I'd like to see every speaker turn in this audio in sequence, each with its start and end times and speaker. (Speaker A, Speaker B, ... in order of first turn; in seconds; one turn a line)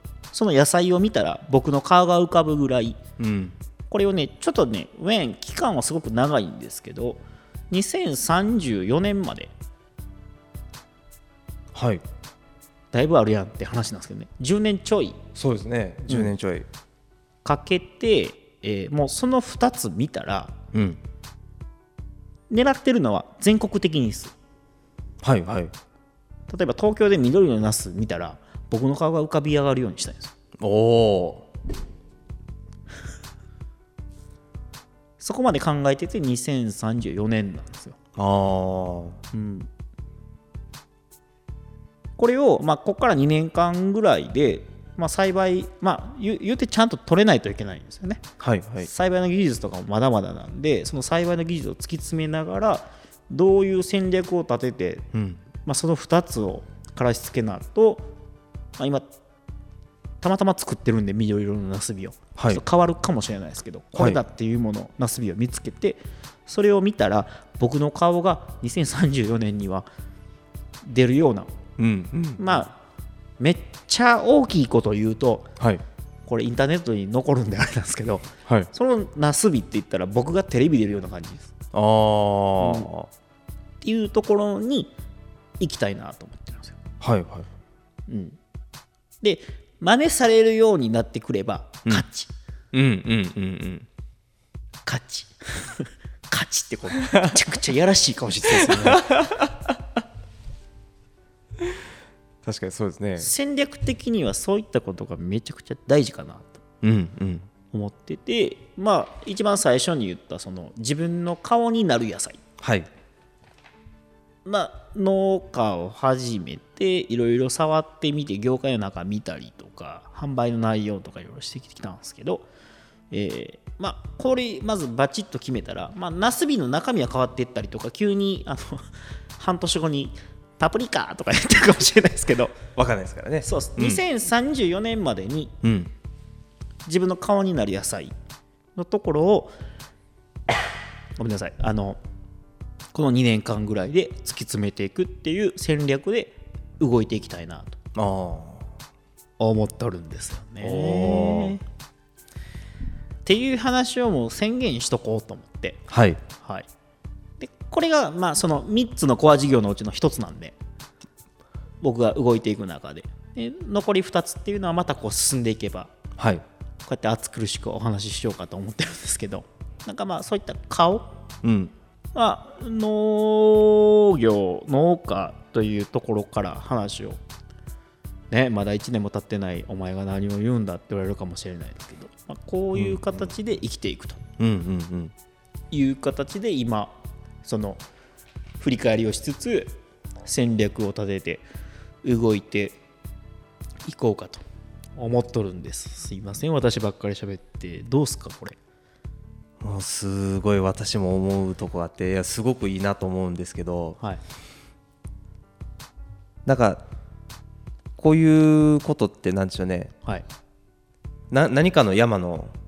Speaker A: 0.3-3.0
Speaker B: 3.2-3.5
Speaker A: 3.9-9.5
Speaker B: 11.7-12.0
Speaker A: 12.9-15.2
Speaker B: 15.3-16.7
Speaker A: 16.1-16.3
Speaker A: 17.4-20.6
Speaker B: 20.7-21.0
Speaker A: 22.5-24.3
Speaker B: 25.2-25.7
Speaker A: 26.5-30.3
Speaker B: 30.6-31.5
Speaker A: 35.2-38.0
Speaker B: 38.1-39.2
Speaker A: 39.3-39.7
Speaker A: 42.2-48.2
Speaker B: 48.4-48.9
Speaker A: 48.8-55.1
Speaker B: 55.1-55.4
Speaker A: 55.6-58.1
Speaker A: 58.8-59.1
Speaker A: 60.2-69.8
Speaker B: 62.4-62.6
Speaker A: 70.8-71.5
Speaker B: 71.8-72.5
Speaker A: 72.4-72.8
Speaker A: 73.4-75.5
Speaker A: 76.3-81.5
Speaker B: 81.7-83.1
Speaker A: 82.6-82.9
Speaker A: 83.8-84.9
Speaker A: 85.6-86.8
Speaker B: 87.0-87.5
Speaker A: 88.1-88.4
Speaker A: 89.2-92.3
Speaker B: 92.7-93.9
Speaker A: 94.8-99.1
Speaker B: 98.5-99.8
Speaker B: 102.4-103.3
Speaker A: 103.2-106.6
Speaker B: 106.8-107.5
Speaker A: 107.7-112.4
Speaker B: 112.6-112.9
Speaker A: 114.4-122.5
Speaker A: 123.1-128.8
Speaker A: 129.4-132.6
Speaker B: 132.7-134.0
Speaker A: 133.4-135.5
Speaker B: 135.6-135.9
Speaker A: 136.9-138.1
Speaker A: 138.8-139.5
Speaker A: 141.2-142.0
Speaker A: 142.9-147.8
Speaker B: 147.9-148.7
Speaker A: 149.4-151.6
Speaker B: 150.6-151.6
Speaker A: 153.2-155.8
Speaker B: 155.9-156.2
Speaker A: 156.4-156.7
Speaker A: 157.4-160.6
Speaker A: 161.8-165.9
Speaker B: 166.2-166.4
Speaker A: 166.9-171.2
Speaker B: 171.4-171.7
Speaker A: 172.1-177.2
Speaker A: 178.3-184.2
Speaker B: 182.7-183.0
Speaker B: 184.4-185.1
Speaker A: 185.7-187.8
Speaker A: 188.6-189.7
Speaker A: 190.2-191.4
Speaker A: 192.0-192.8
Speaker A: 193.8-194.4
Speaker A: 195.0-198.6
Speaker B: 199.6-204.0
Speaker B: 206.4-206.8
Speaker B: 208.0-209.9
Speaker B: 211.3-212.5